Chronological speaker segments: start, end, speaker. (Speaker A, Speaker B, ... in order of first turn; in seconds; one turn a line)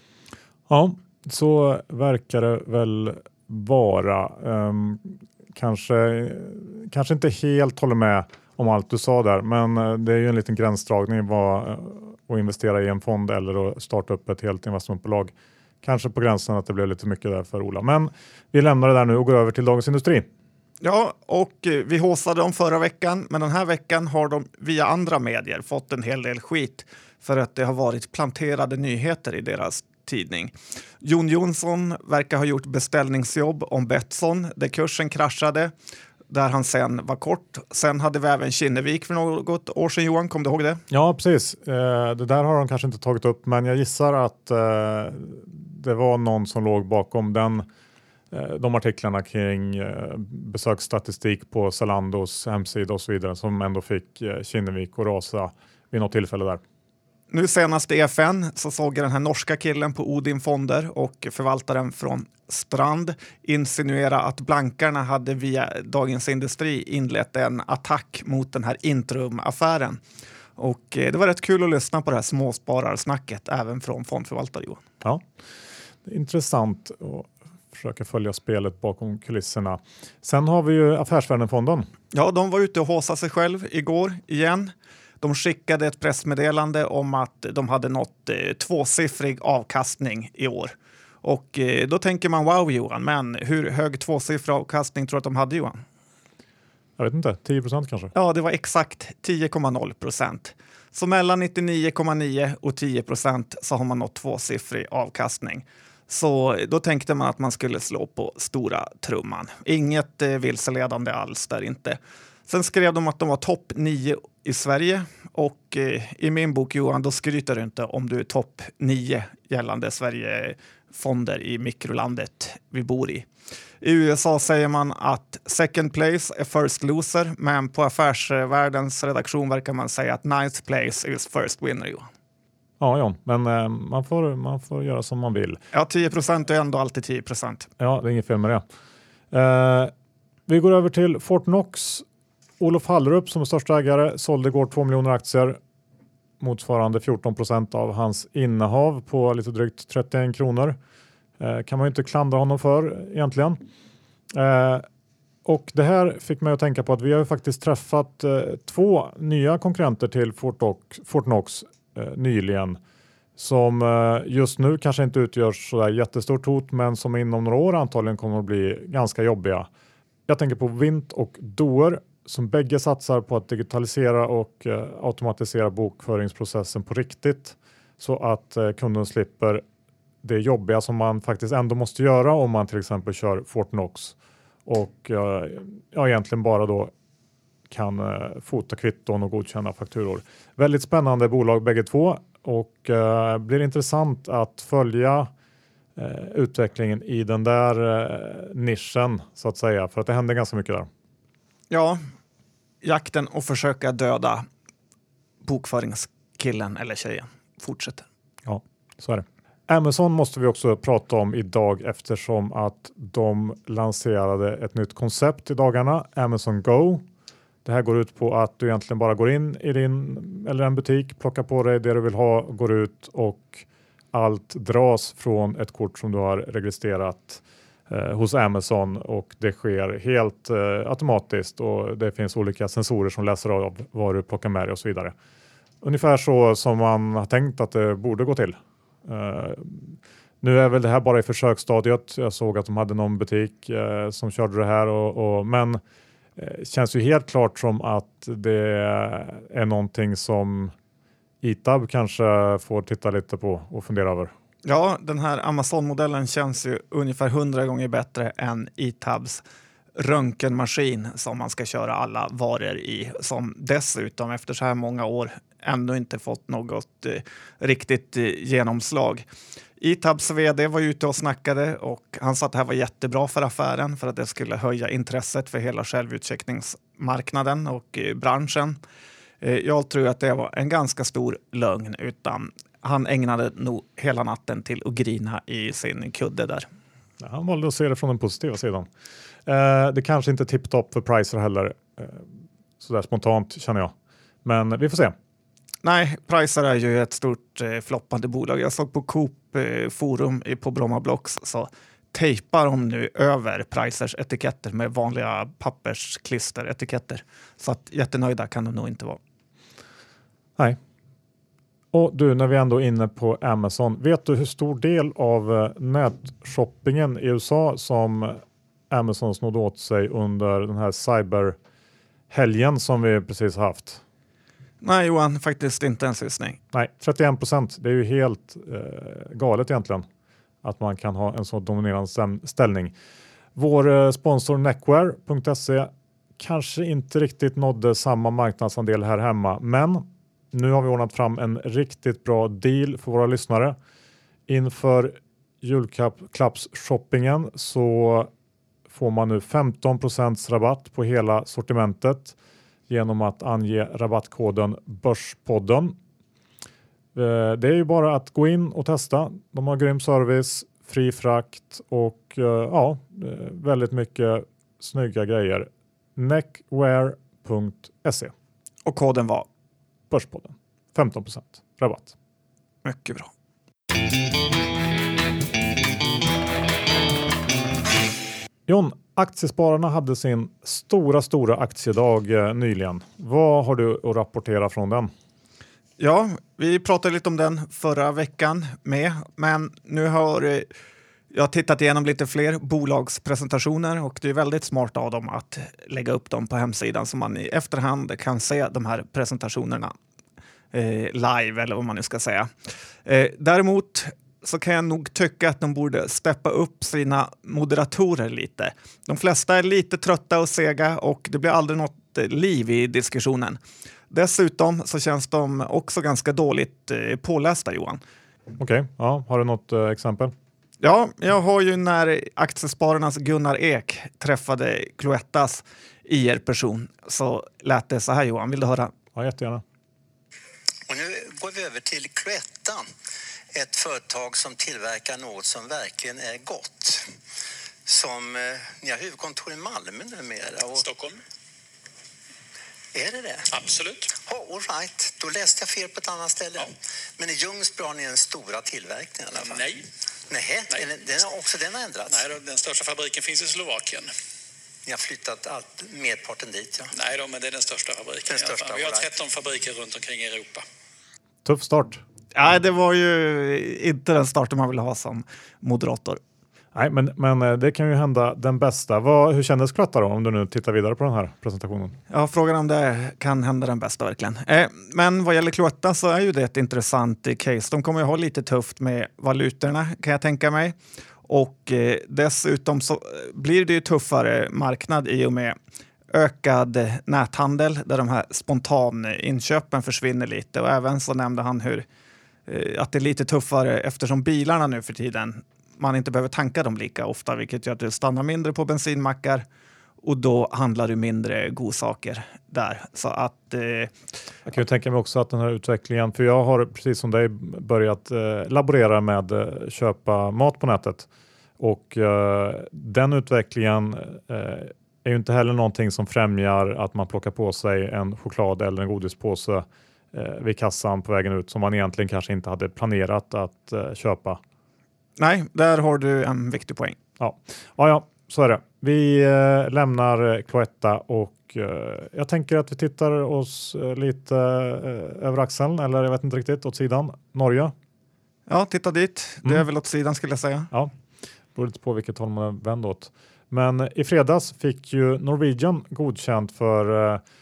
Speaker A: 0.7-20.3
Speaker B: 20.8-35.7
Speaker B: 36.3-40.8
Speaker A: 40.9-47.6
Speaker A: 48.3-56.6
Speaker B: 57.3-70.0
Speaker B: 70.6-74.8
Speaker A: 76.0-81.9
Speaker B: 82.1-95.8
Speaker A: 97.0-98.1
Speaker B: 98.1-123.3
Speaker B: 123.8-132.1
Speaker A: 132.8-135.6
Speaker B: 135.7-137.7
Speaker A: 137.8-138.6
Speaker A: 139.3-139.9
Speaker A: 140.5-142.0
Speaker A: 142.6-145.6
Speaker A: 146.4-150.8
Speaker A: 151.4-153.6
Speaker A: 154.3-154.8
Speaker A: 155.4-162.8
Speaker A: 163.4-169.7
Speaker A: 170.3-179.6
Speaker A: 180.2-184.1
Speaker A: 184.7-186.9
Speaker A: 187.7-195.3
Speaker A: 195.9-200.9
Speaker B: 201.7-202.0
Speaker B: 202.8-204.4
Speaker B: 205.4-208.1
Speaker A: 208.4-217.0
Speaker A: 217.6-235.1
Speaker A: 235.8-245.8
Speaker A: 246.3-250.7
Speaker A: 251.4-254.3
Speaker B: 254.6-259.4
Speaker B: 259.9-269.2
Speaker B: 269.8-278.8
Speaker B: 279.4-286.7
Speaker A: 287.2-288.9
Speaker A: 289.4-293.9
Speaker A: 294.4-295.1
Speaker B: 295.8-309.2
Speaker A: 311.9-321.6
Speaker A: 322.3-324.0
Speaker B: 324.8-326.6
Speaker A: 326.7-330.1
Speaker A: 330.6-332.9
Speaker A: 333.6-343.8
Speaker A: 344.5-348.3
Speaker A: 348.9-352.4
Speaker A: 352.9-356.0
Speaker A: 357.1-368.3
Speaker B: 368.8-369.5
Speaker A: 370.1-372.1
Speaker B: 372.8-373.3
Speaker A: 378.7-385.1
Speaker B: 386.0-390.7
Speaker B: 391.3-399.9
Speaker B: 400.7-402.5
Speaker B: 403.0-413.6
Speaker B: 414.1-418.0
Speaker A: 418.6-420.3
Speaker B: 420.8-428.9
Speaker A: 429.1-429.6
Speaker C: 430.9-432.8
Speaker C: 433.5-437.1
Speaker C: 437.9-440.9
Speaker D: 440.8-441.2
Speaker C: 442.9-443.5
Speaker D: 443.5-444.1
Speaker C: 444.2-449.7
Speaker D: 449.4-449.8
Speaker C: 450.3-452.2
Speaker D: 452.1-454.1
Speaker C: 454.8-456.9
Speaker D: 456.9-460.6
Speaker C: 458.3-459.1
Speaker A: 461.4-462.0
Speaker B: 462.3-466.2
Speaker A: 466.7-471.9
Speaker B: 472.1-485.5
Speaker B: 486.1-491.9
Speaker B: 492.5-499.4
Speaker B: 500.0-503.9
Speaker A: 504.4-511.1
Speaker A: 511.6-524.4
Speaker B: 525.2-527.0
Speaker A: 527.2-537.7
Speaker B: 538.5-540.7
Speaker A: 541.5-547.2